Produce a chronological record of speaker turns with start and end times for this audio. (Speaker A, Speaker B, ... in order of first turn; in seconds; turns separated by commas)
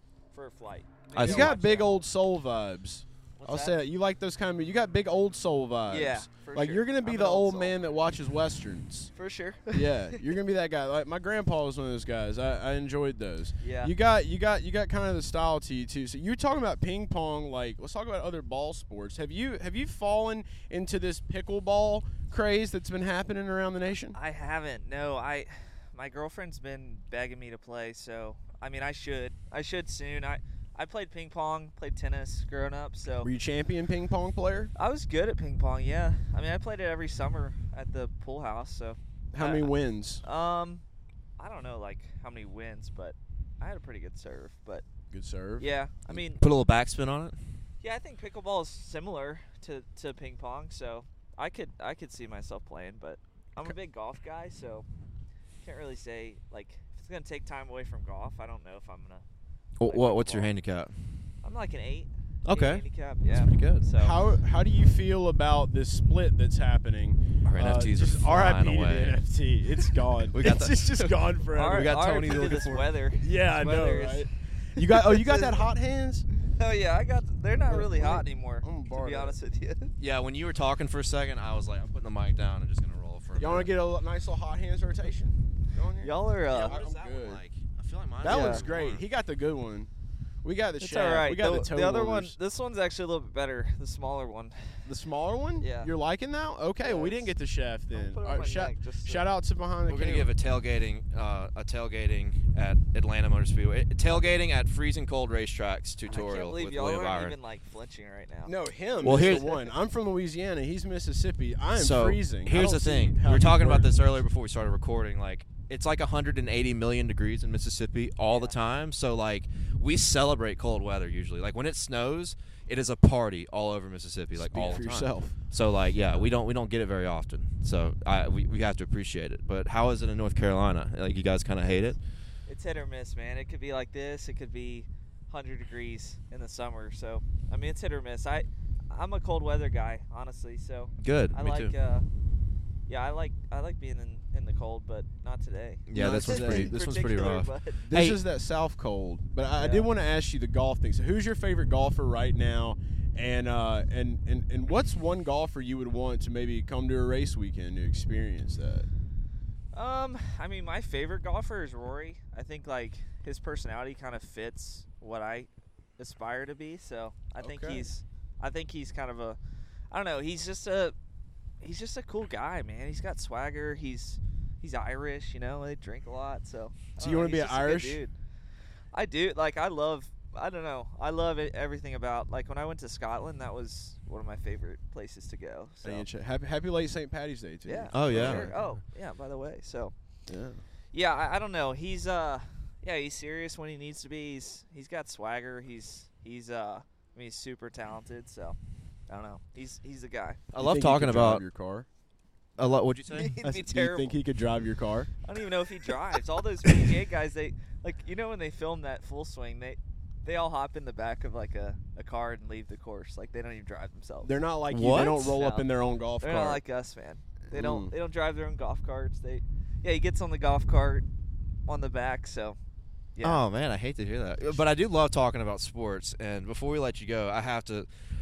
Speaker A: 0.3-2.0, Speaker B: 1.1-1.6, Speaker C: 1.2-9.1, Speaker A: 3.4-3.8, Speaker A: 5.9-7.8, Speaker A: 9.1-10.1, Speaker C: 9.7-24.2, Speaker A: 13.6-13.9, Speaker A: 24.1-33.3, Speaker C: 33.2-34.7, Speaker A: 34.8-39.7, Speaker C: 39.3-40.2, Speaker A: 40.2-40.8, Speaker A: 41.4-44.9, Speaker C: 45.1-45.7, Speaker A: 45.6-46.4, Speaker B: 46.1-47.4, Speaker A: 47.8-54.9, Speaker A: 55.6-59.2, Speaker B: 59.8-60.9, Speaker A: 59.9-60.5, Speaker A: 61.4-64.2, Speaker B: 62.5-63.8, Speaker C: 64.0-72.0, Speaker B: 67.4-69.2, Speaker B: 70.3-72.9, Speaker A: 71.5-75.7, Speaker C: 73.2-76.3, Speaker A: 76.4-79.9, Speaker C: 77.6-79.4, Speaker B: 80.0-83.7, Speaker C: 83.4-87.4, Speaker A: 86.0-86.8, Speaker B: 86.5-89.0, Speaker C: 88.2-89.9, Speaker A: 88.2-88.7, Speaker C: 90.4-92.4, Speaker A: 90.8-94.6, Speaker C: 94.8-100.3, Speaker A: 95.6-95.9, Speaker A: 96.8-97.3, Speaker A: 97.9-99.3, Speaker B: 99.9-107.4, Speaker A: 104.1-104.3, Speaker A: 106.1-109.7, Speaker C: 108.5-114.2, Speaker B: 109.0-109.5, Speaker B: 111.7-132.0, Speaker A: 118.3-118.6, Speaker C: 124.4-125.4, Speaker A: 132.5-142.1, Speaker B: 141.0-141.8, Speaker A: 142.9-147.8, Speaker B: 145.9-148.2, Speaker C: 145.9-146.8, Speaker C: 147.9-158.9, Speaker A: 149.5-149.9, Speaker A: 159.7-169.4, Speaker C: 167.4-167.9, Speaker A: 169.9-170.9, Speaker A: 171.6-178.1, Speaker C: 177.0-178.0, Speaker A: 178.9-186.1, Speaker C: 185.8-188.6, Speaker A: 187.6-189.9, Speaker B: 187.9-188.7, Speaker C: 190.3-190.6, Speaker A: 190.9-198.6, Speaker A: 199.1-200.5, Speaker B: 200.5-201.4, Speaker C: 200.6-201.9, Speaker B: 202.6-203.3, Speaker A: 203.1-204.2, Speaker C: 203.4-205.1, Speaker A: 205.2-214.3, Speaker C: 214.2-216.6, Speaker B: 214.7-215.4, Speaker A: 215.2-215.7, Speaker A: 216.2-221.1, Speaker C: 217.5-217.9, Speaker A: 221.7-222.6, Speaker A: 223.1-223.4, Speaker B: 223.2-227.9